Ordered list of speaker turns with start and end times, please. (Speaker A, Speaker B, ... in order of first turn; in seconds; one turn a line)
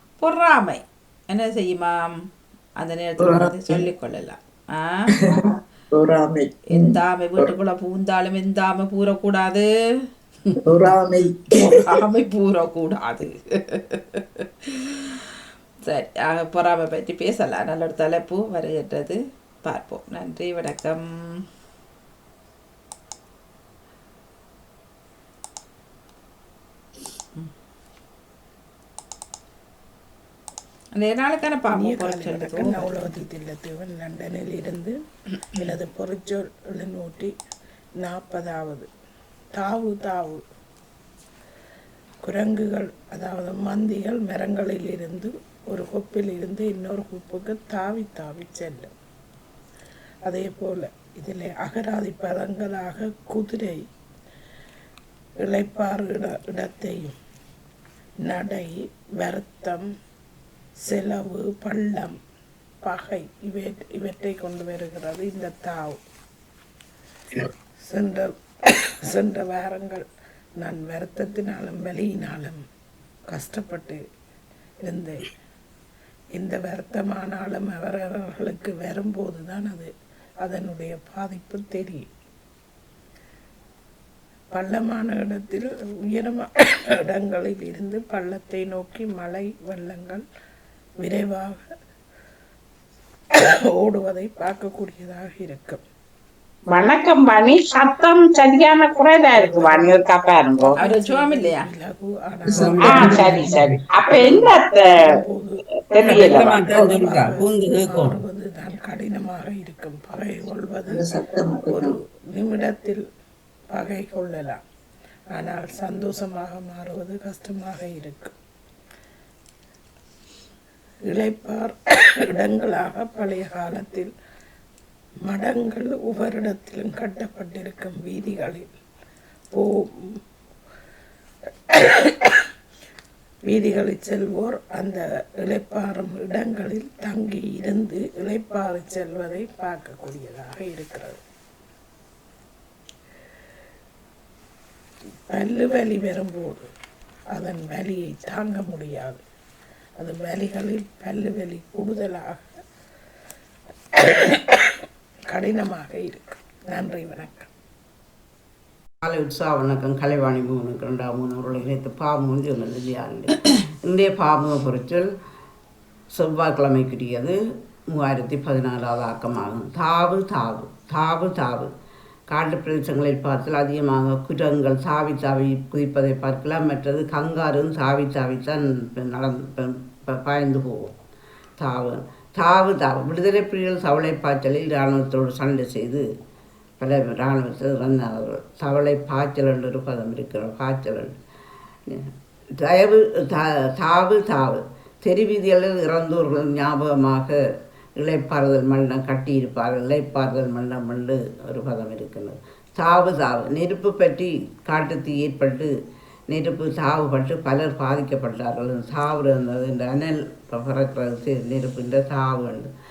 Speaker A: 0.2-2.1
Speaker A: 2.8-5.1
Speaker B: 3.2-3.9
Speaker B: 5.2-7.5
Speaker A: 6.7-9.7
Speaker B: 10.7-12.0
Speaker A: 11.6-14.9
Speaker A: 15.9-21.0
Speaker A: 31.0-32.9
Speaker C: 31.7-34.9
Speaker C: 35.5-37.3
Speaker C: 38.0-38.9
Speaker C: 39.6-40.4
Speaker C: 42.2-48.9
Speaker C: 50.3-53.8
Speaker C: 55.4-57.2
Speaker C: 58.2-59.9
Speaker C: 60.9-62.2
Speaker C: 62.8-66.0
Speaker C: 67.8-68.4
Speaker C: 69.1-70.0
Speaker C: 70.6-72.6
Speaker C: 73.3-74.0
Speaker C: 74.8-75.2
Speaker C: 76.4-79.9
Speaker C: 80.4-82.1
Speaker C: 84.5-86.5
Speaker C: 87.1-90.2
Speaker C: 91.0-91.6
Speaker C: 93.5-95.8
Speaker D: 96.7-100.8
Speaker C: 99.4-100.0
Speaker C: 100.5-113.0
Speaker A: 100.8-101.7
Speaker B: 102.5-102.8
Speaker E: 102.5-103.8
Speaker D: 102.8-105.2
Speaker D: 105.9-107.0
Speaker E: 106.0-108.2
Speaker B: 110.9-111.9
Speaker C: 113.7-114.6
Speaker C: 115.3-118.3
Speaker C: 121.1-121.8
Speaker C: 122.3-124.1
Speaker C: 125.3-128.7
Speaker C: 129.5-129.9
Speaker C: 131.7-132.4
Speaker C: 133.5-141.2
Speaker C: 145.3-146.7
Speaker C: 147.3-149.2
Speaker C: 150.0-152.4
Speaker C: 154.0-154.6
Speaker C: 155.3-157.5
Speaker E: 159.0-165.1
Speaker E: 166.1-167.4
Speaker E: 167.9-171.7
Speaker E: 172.3-180.9
Speaker E: 181.6-186.0
Speaker E: 186.8-191.2
Speaker E: 191.9-197.3
Speaker E: 198.0-205.7
Speaker E: 206.3-212.7